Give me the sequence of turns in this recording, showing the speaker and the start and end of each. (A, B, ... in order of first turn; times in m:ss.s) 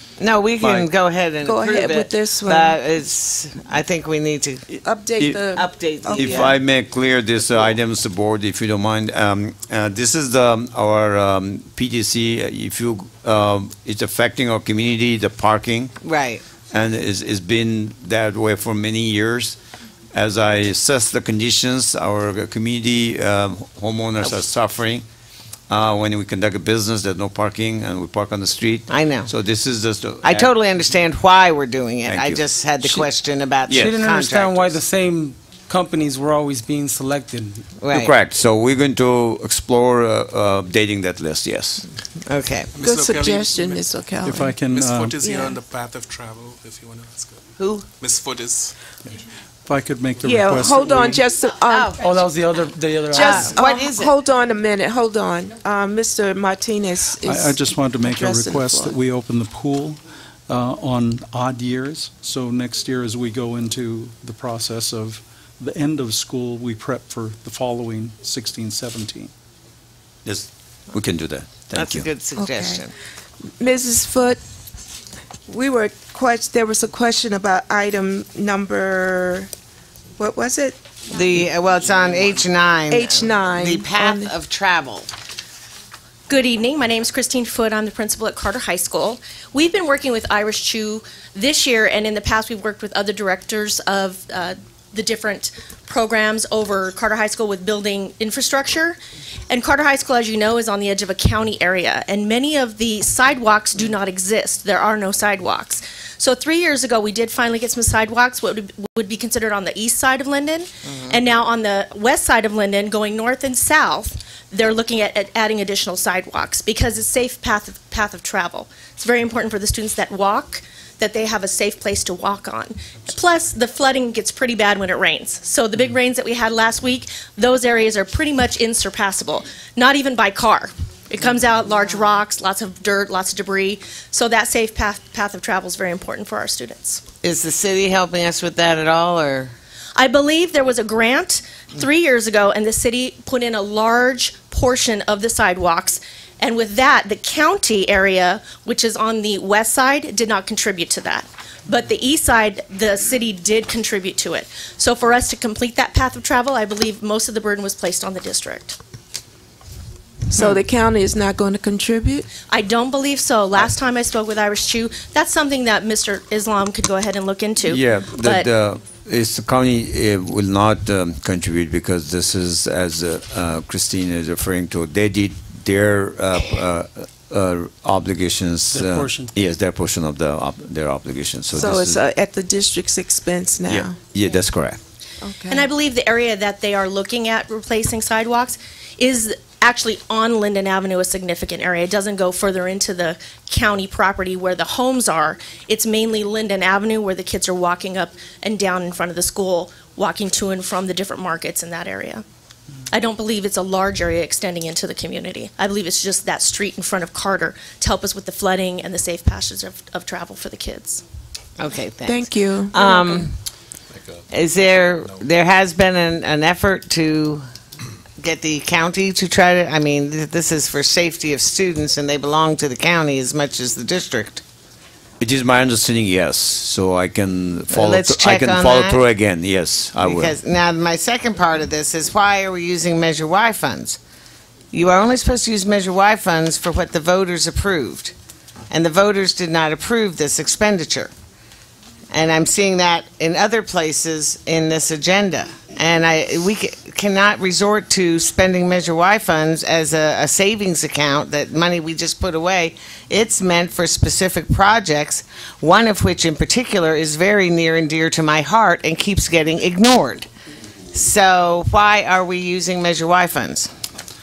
0:00.2-0:04.7 A
0:01.4-0:02.8 B
0:04.8-0:06.6 B
0:05.2-0:05.4 C
0:05.5-0:06.6 A
0:06.1-0:15.9 C
0:16.0-0:16.4 A
0:16.7-0:19.6 C
0:20.1-0:25.0 C
0:25.7-0:30.5 C
0:28.9-0:29.3 A
0:30.2-0:34.8 A
0:32.1-0:32.4 C
0:32.8-0:33.1 D
0:33.7-0:33.9 C
0:33.7-0:37.6 D
0:37.8-0:38.1 A
0:37.9-0:41.9 C
0:42.3-0:42.7 A
0:42.7-0:43.9 E
0:42.8-0:44.6 B
0:44.2-0:45.2 F
0:44.7-0:47.4 E
0:45.2-0:45.6 B
0:47.6-0:47.9 A
0:48.0-0:48.8 E
0:49.0-0:51.2 F
0:50.2-0:52.0 B
0:51.7-0:52.3 A
0:52.0-0:53.6 D
0:53.1-0:59.0 B
0:53.1-0:54.1 A
0:57.2-1:09.3 F
1:10.2-1:12.1 C
1:11.7-1:12.9 A
1:12.4-1:12.8 B
1:13.6-1:14.4 B
1:15.5-1:19.5 B
1:20.2-1:20.8 B
1:21.1-1:25.1 A
1:22.9-1:24.3 B
1:26.3-1:39.0 G
1:39.5-2:17.0 G
1:50.9-1:51.2 A
2:17.2-2:19.5 A
2:20.0-2:38.8 G
2:40.3-2:42.3 B
2:42.5-2:48.5 G
2:47.6-3:02.0 C
2:58.7-2:59.3 D
3:01.5-3:04.0 B
3:03.7-3:04.8 C
3:05.2-3:05.7 B
3:05.5-3:22.2 G
3:22.9-3:31.0 G
3:31.6-3:33.3 A
3:32.1-3:33.2 B
3:34.3-3:37.4 A
3:38.2-3:44.4 A
3:45.2-3:50.4 C
3:47.7-3:49.0 A
3:50.0-3:54.0 A
3:54.7-3:58.1 A
3:58.7-4:01.1 A
4:02.1-4:20.3 A
4:20.9-4:23.7 A